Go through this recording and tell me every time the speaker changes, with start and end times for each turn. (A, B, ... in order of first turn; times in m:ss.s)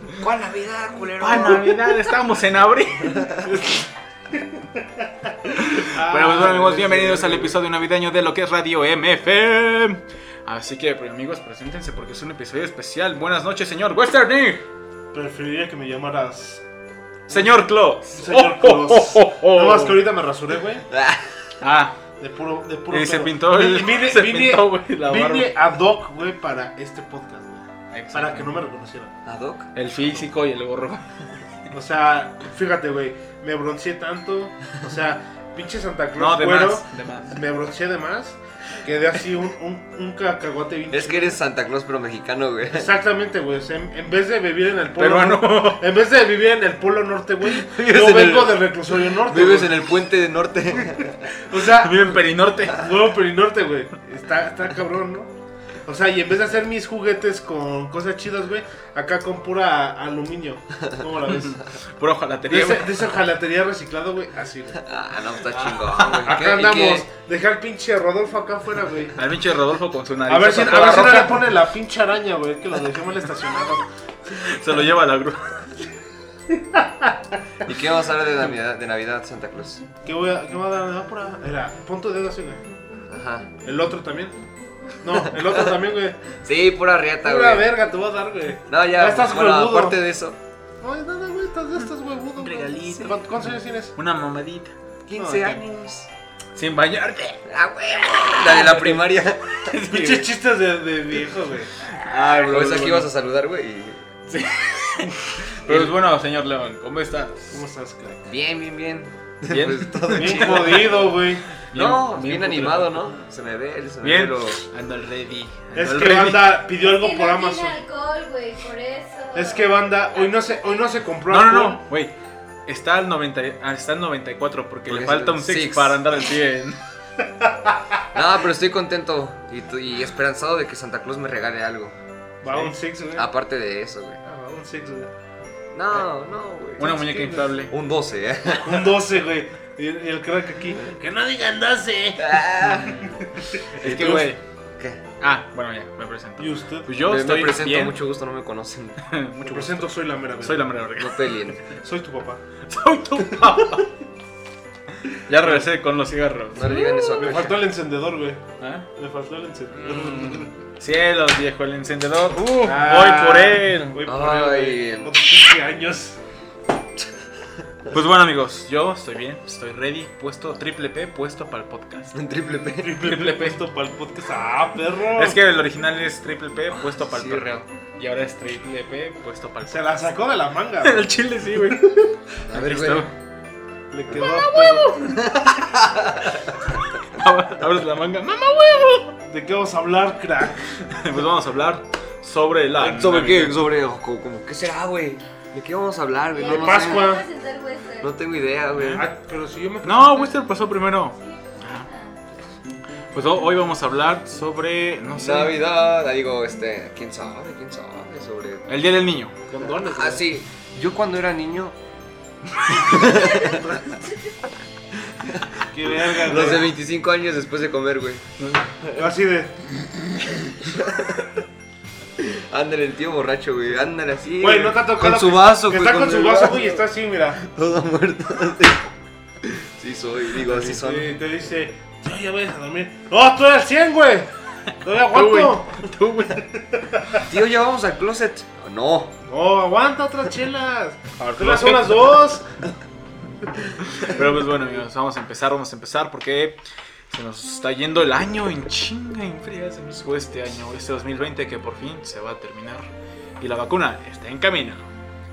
0:00.2-0:01.8 A
0:01.2-0:03.4 B
0:03.1-0:03.4 A
0:03.4-0:07.6 C
0:05.6-0:14.6 B
0:15.1-0:16.6 C
0:17.3-0:20.1 B
0:17.3-0:17.6 C
0:18.1-0:20.9 C
0:20.9-0:21.5 A
0:21.6-0:22.0 B
0:22.2-0:29.2 C
0:22.9-0:25.5 B
0:27.9-0:28.5 B
0:29.3-0:29.7 A
0:29.8-0:31.3 B
0:31.7-0:41.4 C
0:36.2-0:37.4 B
0:40.9-0:42.9 A
0:42.7-0:49.8 C
0:45.0-0:45.9 B
0:47.5-0:51.4 A
0:51.3-0:55.3 C
0:51.6-0:52.9 B
0:55.9-1:01.6 C
1:01.3-1:03.1 B
1:02.5-1:04.9 C
1:04.8-1:07.0 A
1:05.5-1:06.3 B
1:06.2-1:09.2 C
1:09.2-1:11.5 B
1:10.3-1:13.9 C
1:14.3-1:15.8 B
1:16.5-1:17.4 C
1:17.6-1:19.8 A
1:20.0-1:22.6 C
1:23.1-1:23.5 A
1:23.6-1:24.4 C
1:25.0-1:26.4 C
1:26.4-1:27.7 A
1:27.2-1:30.0 C
1:28.7-1:30.4 A
1:30.8-1:34.0 C
1:32.4-1:33.4 B
1:34.0-1:34.8 B
1:35.1-1:36.1 A
1:35.2-1:35.6 C
1:36.6-1:37.4 B
1:37.5-1:40.2 A
1:38.0-1:39.0 B
1:39.6-1:40.3 B
1:39.9-1:41.8 C
1:41.9-1:43.1 B
1:42.1-1:44.2 A
1:44.3-1:47.5 B
1:45.6-1:45.9 A
1:47.5-1:48.3 C
1:48.3-1:51.1 A
1:49.5-1:51.0 B
1:50.1-1:51.5 C
1:51.7-1:53.1 B
1:51.7-1:54.7 A
1:54.0-1:56.6 B
1:55.7-1:57.8 C
1:56.8-1:59.7 D
1:59.3-2:01.8 C
2:01.3-2:02.1 B
2:02.7-2:06.8 B
2:04.9-2:06.0 A
2:07.4-2:07.8 C
2:08.1-2:12.0 A
2:12.4-2:13.3 C
2:13.1-2:14.2 A
2:14.2-2:15.1 C
2:15.7-2:19.0 A
2:16.8-2:17.7 B
2:17.1-2:17.5 C
2:18.6-2:24.3 C
2:22.2-2:25.0 A
2:22.7-2:23.1 B
2:23.8-2:24.4 B
2:25.2-2:28.0 B
2:26.4-2:26.9 C
2:27.0-2:29.0 A
2:29.0-2:31.5 B
2:29.4-2:30.8 C
2:31.0-2:31.7 A
2:31.8-2:32.4 C
2:32.7-2:33.9 B
2:35.1-2:36.9 B
2:36.5-2:37.6 A
2:37.2-2:38.4 C
2:38.6-2:38.9 B
2:39.0-2:40.5 C
2:39.7-2:44.0 B
2:42.6-2:46.2 C
2:44.0-2:45.1 A
2:47.9-2:52.2 B
2:52.1-2:52.9 A
2:52.8-2:55.4 C
2:53.0-2:53.6 B
2:55.1-3:00.0 B
2:56.7-2:57.6 A
2:59.7-3:01.1 C
3:00.8-3:03.1 B
3:02.4-3:03.1 A
3:03.9-3:04.9 C
3:04.1-3:05.4 B
3:05.0-3:06.8 A
3:07.0-3:09.2 B
3:09.2-3:10.8 C
3:10.8-3:13.6 B
3:12.8-3:17.2 A
3:16.3-3:18.1 D
3:16.5-3:17.3 C
3:18.0-3:19.1 A
3:18.7-3:19.1 B
3:18.9-3:20.4 C
3:19.8-3:21.9 B
3:21.5-3:22.1 D
3:23.1-3:25.6 B
3:25.2-3:28.7 A
3:28.7-3:29.4 B
3:29.5-3:30.3 C
3:29.7-3:31.8 A
3:32.6-3:34.0 A
3:35.1-3:38.2 A
3:35.7-3:36.7 C
3:38.4-3:38.8 B
3:39.0-3:39.6 C
3:40.6-3:41.3 A
3:42.2-3:46.8 A
3:44.4-3:47.4 C
3:47.4-3:48.9 A
3:49.4-3:51.2 A
3:50.4-3:54.3 C
3:54.8-3:55.9 C
3:54.9-3:56.5 B
3:56.4-3:57.3 C
3:57.2-3:59.2 A
3:59.3-4:02.5 C
4:01.2-4:02.2 B
4:03.8-4:14.9 B